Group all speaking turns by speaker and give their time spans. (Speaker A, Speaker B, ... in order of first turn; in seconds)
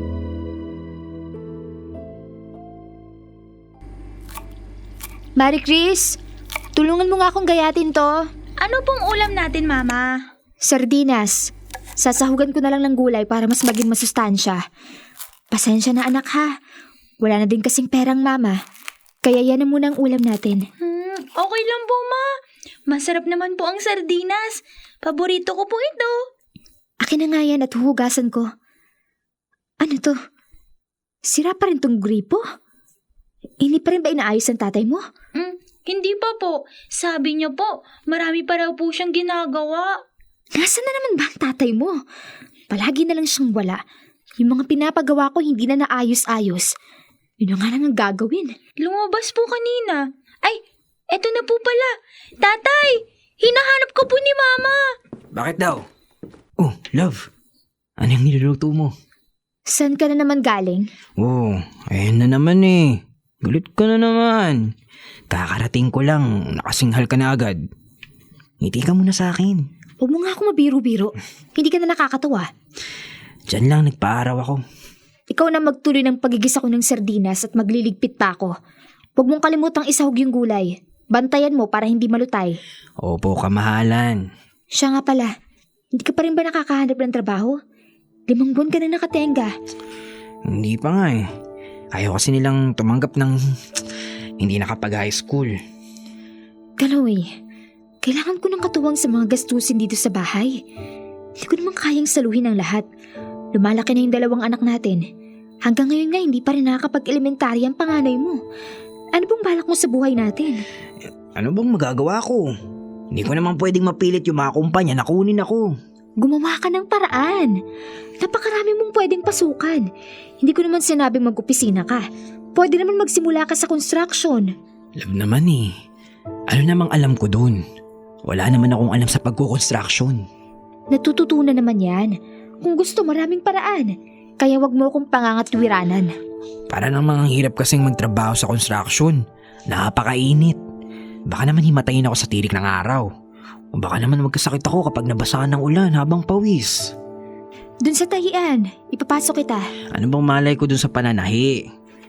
Speaker A: 5.4-6.2, 6.8-8.2, 10.6-14.6, 15.5-16.5, 17.2-18.6, 19.2-20.6, 27.0-28.5, 29.8-30.1, 31.3-32.4, 33.6-35.0, 40.6-41.9, 42.7-43.8, 44.4-46.7, 47.4-48.5, 59.7-60.9, 70.0-72.5, 75.3-78.5, 79.2-82.6, 84.8-85.3, 85.9-87.6, 88.3-89.5, 96.8-97.3, 98.0-100.6, 101.4-102.8, 103.5-105.0, 105.7-108.4, 109.2-110.6, 116.2-117.6, 118.2-119.8, 120.4-122.0, 122.6-124.5, 130.9-136.1, 147.8-149.7
Speaker B: 8.6-10.2, 20.8-22.2, 22.9-26.1, 35.4-39.9, 48.8-54.8
Speaker C: 55.3-55.8, 56.6-57.3, 58.0-58.9, 61.2-64.6, 65.3-67.6, 68.6-69.6, 73.5-74.6, 83.0-84.2, 90.5-91.2, 91.9-93.4, 94.4-95.5, 111.4-112.5, 113.1-115.7, 125.0-125.7, 126.5-127.6, 128.2-130.2, 136.7-140.6, 141.3-143.1, 143.7-146.9, 149.9-151.6